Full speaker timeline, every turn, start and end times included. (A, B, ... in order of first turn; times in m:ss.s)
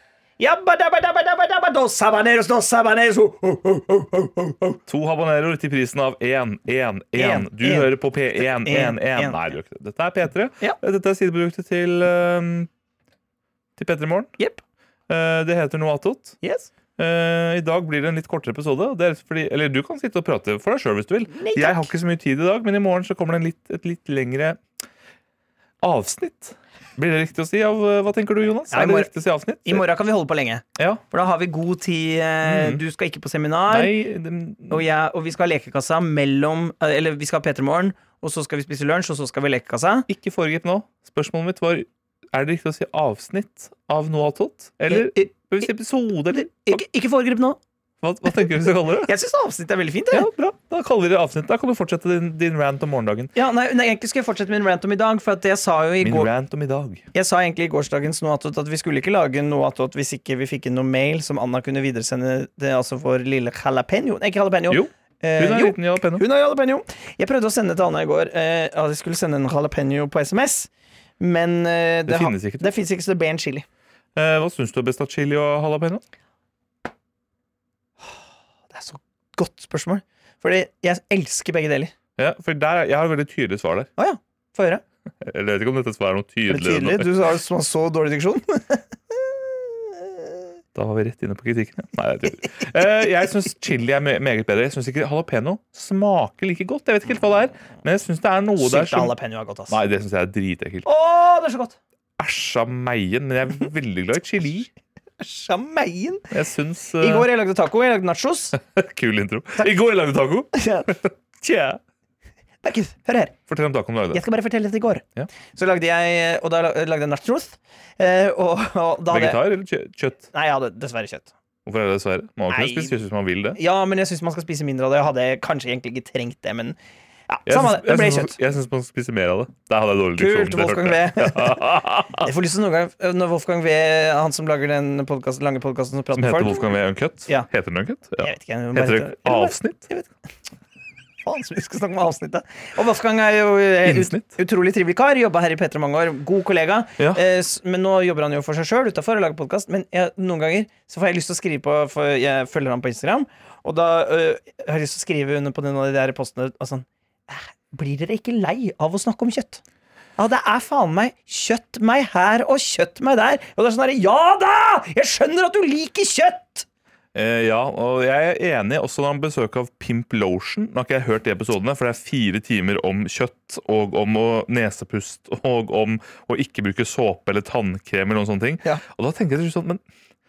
0:00.4-0:04.8 A
0:04.9-0:12.7 B
0:07.1-0:09.4 A
0:13.8-0:14.3 B
0:15.1-0:16.4 B
0:16.4-0:16.7 A
0:17.0-0:24.6 B
0:21.3-0:21.9 A
0:25.8-0:29.8 B
0:28.7-0:29.1 A
0:29.6-0:34.0 A
0:30.8-0:31.0 B
0:32.4-0:32.8 B
0:33.7-0:34.8 B
0:34.7-0:40.1 A
0:40.1-0:46.8 B
0:44.9-0:45.3 A
0:46.4-0:47.6 A
0:48.0-0:49.1 B
0:49.0-0:50.3 A
0:50.1-0:53.3 B
0:53.3-0:56.3 A
0:56.0-0:57.0 B
0:57.1-1:13.6 A
1:04.7-1:06.2 B
1:12.1-1:12.7 B
1:14.2-1:16.0 B
1:18.0-1:21.9 A
1:22.2-1:23.9 B
1:24.0-1:24.8 A
1:25.2-1:27.1 B
1:26.5-1:30.4 A
1:30.7-1:39.1 B
1:38.6-1:39.8 A
1:39.7-1:40.9 B
1:40.8-1:41.8 A
1:42.2-1:44.7 B
1:45.2-1:46.3 A
1:46.3-1:47.3 B
1:47.0-1:48.6 A
1:48.6-1:51.8 B
1:50.5-1:50.9 A
1:52.6-1:53.4 A
1:53.5-1:54.2 B
1:54.1-1:59.4 A
1:59.1-2:00.3 B
2:00.3-2:01.3 A
2:01.6-2:03.6 B
2:02.5-2:03.0 A
2:03.5-2:06.8 A
2:07.3-2:08.4 A
2:07.5-2:12.3 B
2:10.2-2:16.7 A
2:16.1-2:19.8 B
2:18.2-2:20.1 A
2:21.2-2:39.6 A
2:23.8-2:24.4 B
2:40.2-2:46.7 A
2:47.1-2:59.8 B